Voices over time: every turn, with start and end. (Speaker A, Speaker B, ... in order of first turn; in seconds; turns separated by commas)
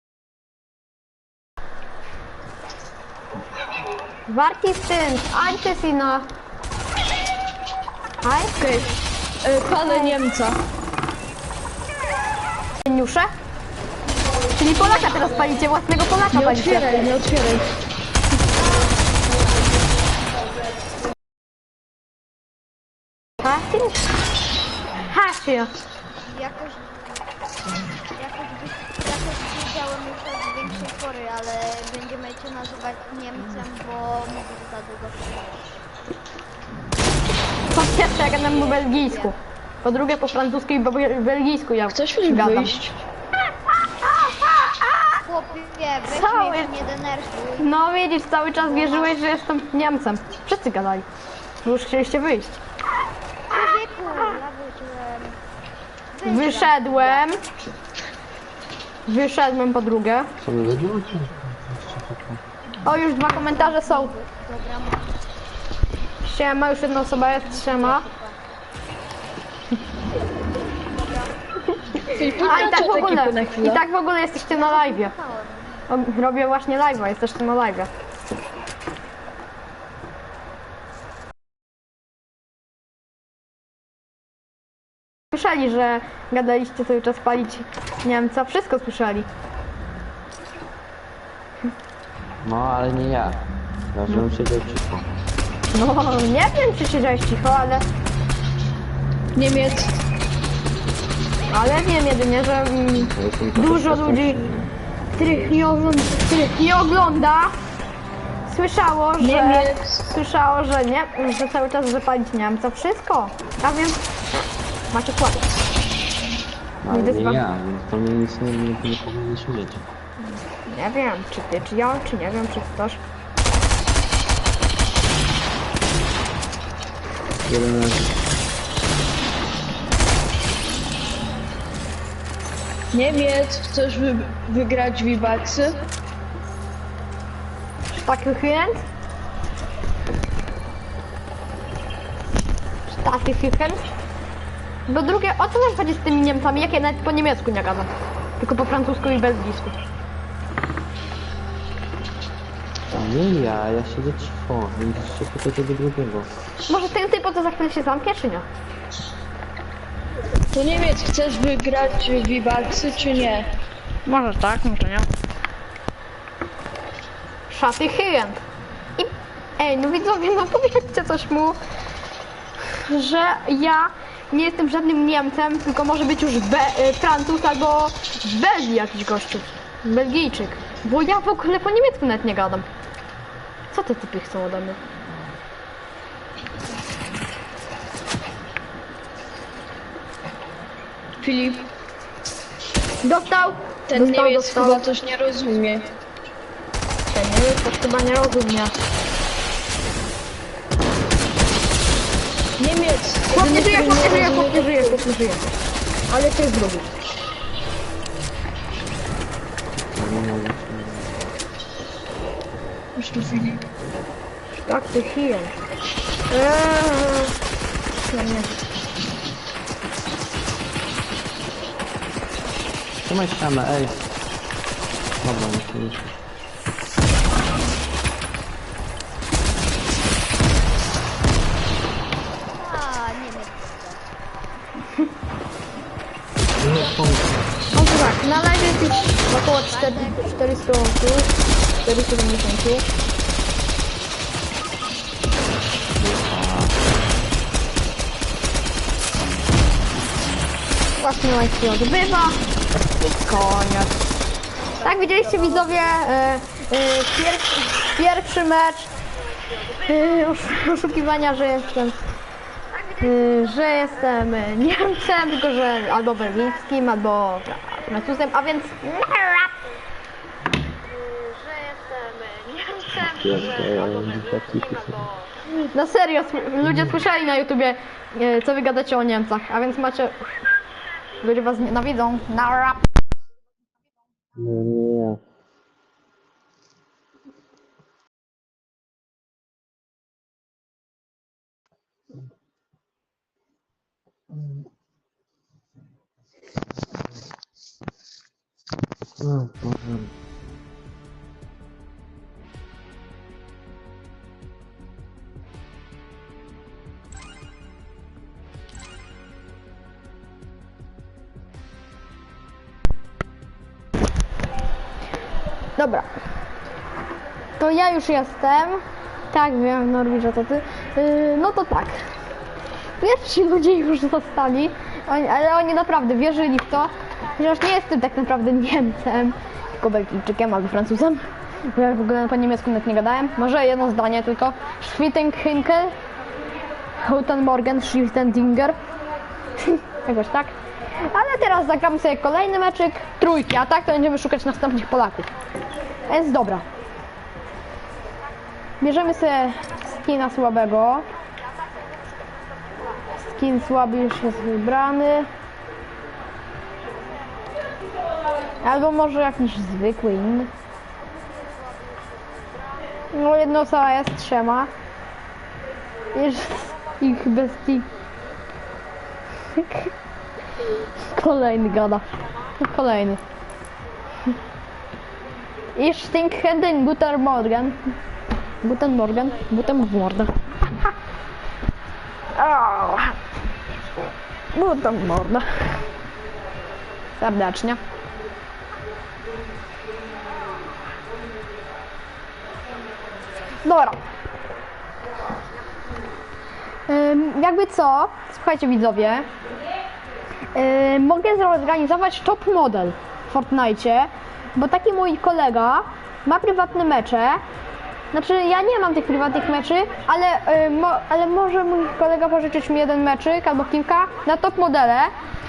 Speaker A: 4.3-6.3, Speaker A: 8.2-8.5, Speaker B: 8.6-10.6, Speaker A: 12.8-13.3, Speaker A: 14.6-17.1, Speaker B: 16.3-17.7, Speaker A: 23.4-24.0, Speaker A: 25.0-25.7, Speaker C: 26.2-26.9, Speaker C: 28.1-35.8, Speaker A: 37.7-42.8, Speaker C: 38.1-39.3, Speaker B: 41.9-43.0, Speaker A: 44.0-45.2, Speaker C: 45.2-47.7, Speaker A: 46.0-46.7, Speaker A: 47.6-51.0, Speaker C: 48.6-49.2, Speaker A: 51.6-52.6, Speaker C: 53.5-55.4, Speaker C: 56.1-57.3, Speaker A: 56.2-57.4, Speaker A: 59.1-60.3, Speaker D: 60.4-62.4, Speaker A: 62.8-64.1, Speaker C: 63.2-65.1, Speaker A: 66.2-68.1, Speaker C: 67.4-68.4, Speaker A: 72.0-75.1, Speaker B: 72.1-73.8, Speaker C: 74.5-75.8, Speaker A: 75.9-77.9, Speaker A: 85.3-89.3, Speaker D: 92.4-95.1, Speaker A: 95.7-97.8, Speaker B: 99.3-99.9, Speaker A: 101.5-104.4, Speaker D: 103.1-104.7, Speaker A: 105.2-107.5, Speaker A: 108.5-114.0, Speaker B: 109.2-110.0, Speaker A: 114.9-115.5, Speaker D: 116.8-119.9, Speaker A: 116.9-117.4, Speaker A: 120.3-123.0, Speaker D: 127.4-128.1, Speaker B: 132.9-135.7, Speaker A: 137.9-138.8, Speaker A: 142.9-143.8, Speaker A: 144.9-149.8, Speaker D: 152.9-156.3, Speaker A: 156.7-158.5, Speaker B: 160.5-163.5, Speaker A: 164.1-165.1, Speaker A: 167.5-168.4, Speaker A: 169.0-171.6, Speaker A: 172.7-182.7, Speaker A: 183.7-184.8, Speaker B: 191.2-191.7, Speaker A: 193.0-194.8, Speaker B: 193.9-195.9, Speaker A: 197.1-198.8, Speaker B: 202.6-205.0, Speaker A: 203.3-205.5, Speaker A: 206.1-206.9, Speaker D: 209.9-211.1, Speaker B: 213.0-213.6, Speaker A: 214.6-215.5, Speaker A: 216.3-217.3, Speaker A: 218.0-218.5, Speaker D: 223.0-224.0, Speaker D: 225.2-226.1, Speaker C: 232.5-234.0, Speaker D: 236.6-237.5, Speaker A: 237.7-241.3, Speaker C: 239.7-240.2, Speaker A: 241.8-242.8, Speaker D: 245.9-246.9, Speaker A: 251.0-252.4, Speaker A: 253.0-254.0, Speaker A: 254.8-258.9, Speaker A: 259.8-262.0, Speaker A: 263.0-269.5, Speaker A: 271.4-273.2, Speaker D: 273.0-275.1, Speaker A: 275.7-280.4, Speaker D: 276.6-277.0, Speaker A: 281.2-282.8, Speaker D: 284.3-285.2, Speaker D: 294.3-294.6, Speaker D: 299.2-300.1, Speaker A: 315.8-316.1, Speaker A: 317.6-322.0, Speaker A: 323.0-335.9, Speaker A: 337.0-338.8, Speaker A: 339.6-340.5, Speaker A: 341.1-345.3, Speaker A: 346.1-346.6, Speaker A: 348.8-351.1, Speaker A: 353.1-355.3, Speaker A: 358.6-360.5, Speaker A: 363.1-364.7, Speaker A: 366.1-367.9, Speaker A: 369.6-369.9, Speaker A: 371.1-372.1, Speaker A: 372.6-373.2, Speaker A: 375.7-377.8, Speaker A: 378.6-380.3, Speaker A: 382.3-383.1, Speaker A: 384.5-385.5, Speaker A: 387.2-387.8, Speaker A: 393.6-394.0, Speaker A: 396.9-399.3, Speaker A: 400.5-407.4, Speaker A: 408.1-415.1